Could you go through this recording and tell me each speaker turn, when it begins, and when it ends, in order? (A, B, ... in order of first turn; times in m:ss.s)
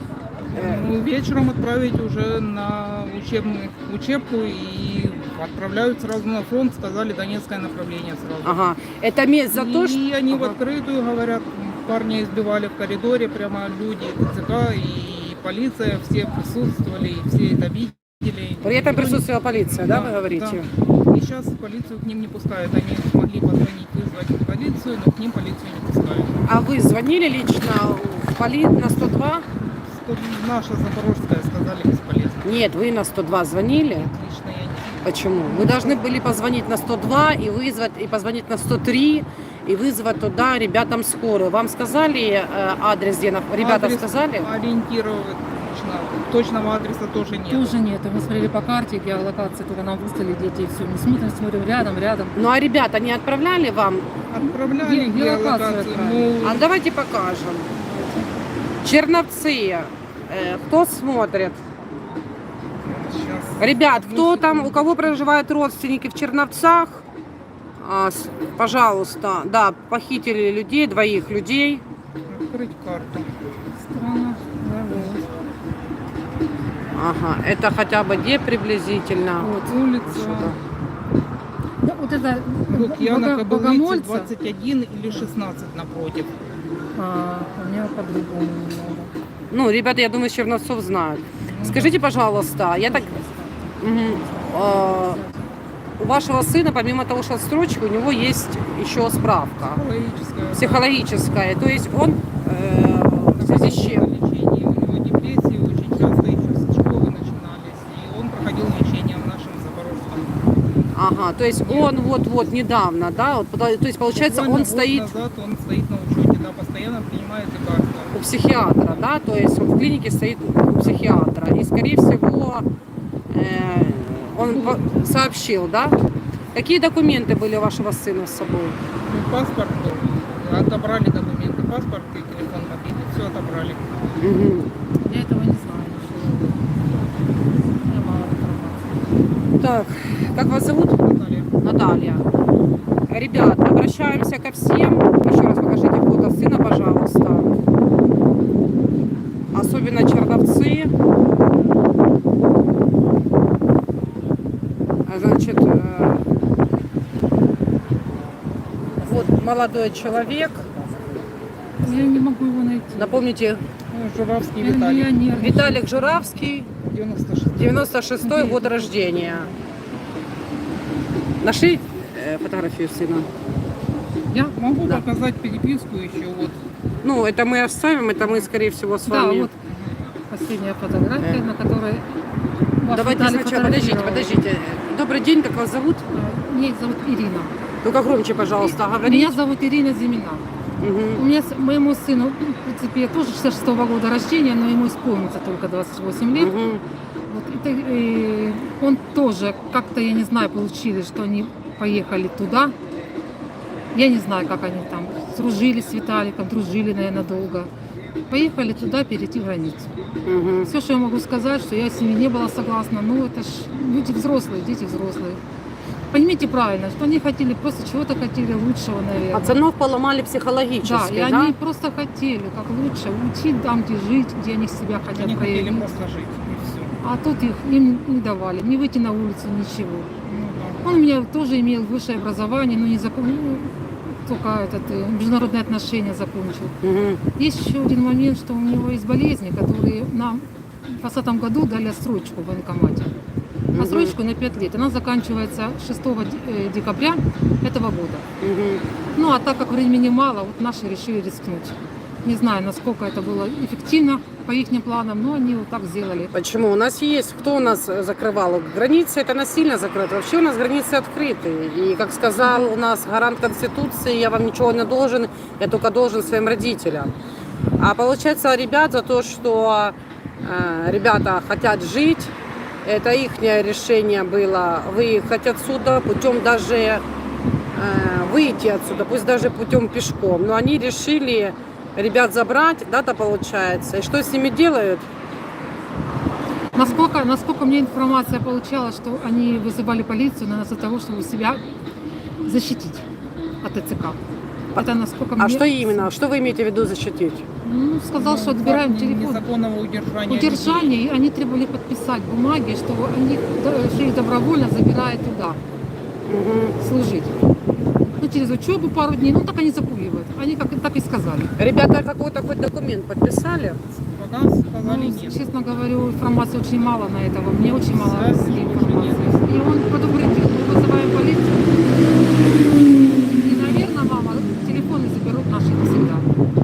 0:00.5-0:08.6 A
0:00.6-0:00.8 B
0:08.4-0:10.5 B
0:09.5-0:26.4 A
0:18.6-0:20.7 B
0:26.4-0:29.4 B
0:29.6-0:32.7 A
0:32.4-0:34.1 B
0:33.9-0:36.0 A
0:35.0-0:44.5 B
0:43.6-0:47.8 A
0:47.5-0:52.4 C
0:52.3-0:54.2 B
0:54.3-0:56.7 A
0:54.4-0:56.6 C
0:56.4-0:57.7 B
0:57.8-0:58.3 C
0:58.8-1:01.6 B
1:02.8-1:05.2 A
1:03.6-1:07.0 B
1:07.8-1:11.8 B
1:12.3-1:13.2 A
1:13.8-1:15.3 C
1:16.9-1:19.5 B
1:19.4-1:19.8 C
1:19.6-1:20.6 A
1:20.2-1:20.6 B
1:21.8-1:24.3 C
1:22.7-1:26.4 A
1:27.0-1:29.1 C
1:29.5-1:33.1 B
1:31.4-1:32.0 A
1:32.8-1:35.4 C
1:33.8-1:35.2 B
1:36.0-1:39.8 B
1:39.6-1:41.0 A
1:40.5-1:44.1 B
1:43.3-1:50.3 A
1:50.9-1:55.1 B
1:51.6-1:52.0 A
1:54.1-1:58.1 A
1:58.1-2:02.6 B
2:00.8-2:01.2 A
2:03.3-2:06.0 B
2:04.5-2:04.8 A
2:06.5-2:08.8 B
2:09.0-2:13.9 A
2:14.2-2:14.7 B
2:15.0-2:16.7 C
2:17.6-2:18.9 C
2:19.6-2:21.0 B
2:21.0-2:21.5 A
2:21.6-2:22.2 B
2:23.1-2:27.5 B
2:29.5-2:30.9 B
2:35.0-2:36.2 B
2:39.0-2:40.7 B
2:41.8-2:43.2 C
2:42.9-2:43.6 B
2:43.9-2:45.2 A
2:44.6-2:46.5 C
2:45.3-2:46.7 B
2:46.7-2:47.9 A
2:47.6-2:49.5 B
2:48.2-2:49.5 C
2:51.4-2:53.3 B
2:54.5-2:56.6 A
2:57.0-2:59.5 B
2:58.2-2:58.4 A
2:59.0-2:59.5 C
3:00.3-3:02.2 C
3:01.2-3:01.4 B
3:02.8-3:04.4 C
3:02.9-3:06.0 B
3:06.1-3:07.5 C
3:07.8-3:09.4 B
3:09.0-3:10.4 C
3:10.8-3:11.2 B
3:11.1-3:16.5 C
3:16.3-3:16.8 B
3:17.3-3:22.7 C
3:23.9-3:27.7 C
3:28.3-3:29.9 C
3:30.2-3:30.7 B
3:30.6-3:35.4 C
3:36.1-3:39.6 C
3:39.3-3:41.6 B
3:40.8-3:46.0 C
3:45.1-3:47.0 A
3:47.0-3:50.1 C
3:50.2-3:50.8 A
3:50.8-3:56.7 C
3:56.8-3:57.2 B
3:57.3-4:03.1 C
4:03.7-4:04.1 B
4:03.7-4:08.2 C
4:08.4-4:08.8 B
4:09.1-4:16.3 C
4:16.3-4:27.1 B
4:22.4-4:22.7 C
4:27.8-4:37.0 B
4:37.7-4:45.0 B
4:46.7-4:51.6 C
4:52.4-4:53.0 C
4:53.6-4:54.2 C
4:54.8-4:56.1 C
4:54.8-4:57.5 B
4:57.6-4:59.5 C
4:58.1-5:00.9 A
5:00.3-5:05.6 C
5:06.3-5:06.8 B
5:06.8-5:07.3 C
5:08.2-5:11.5 C
5:11.6-5:13.8 B
5:14.0-5:15.4 A
5:14.8-5:21.7 C
5:17.8-5:19.6 A
5:23.4-5:26.2 C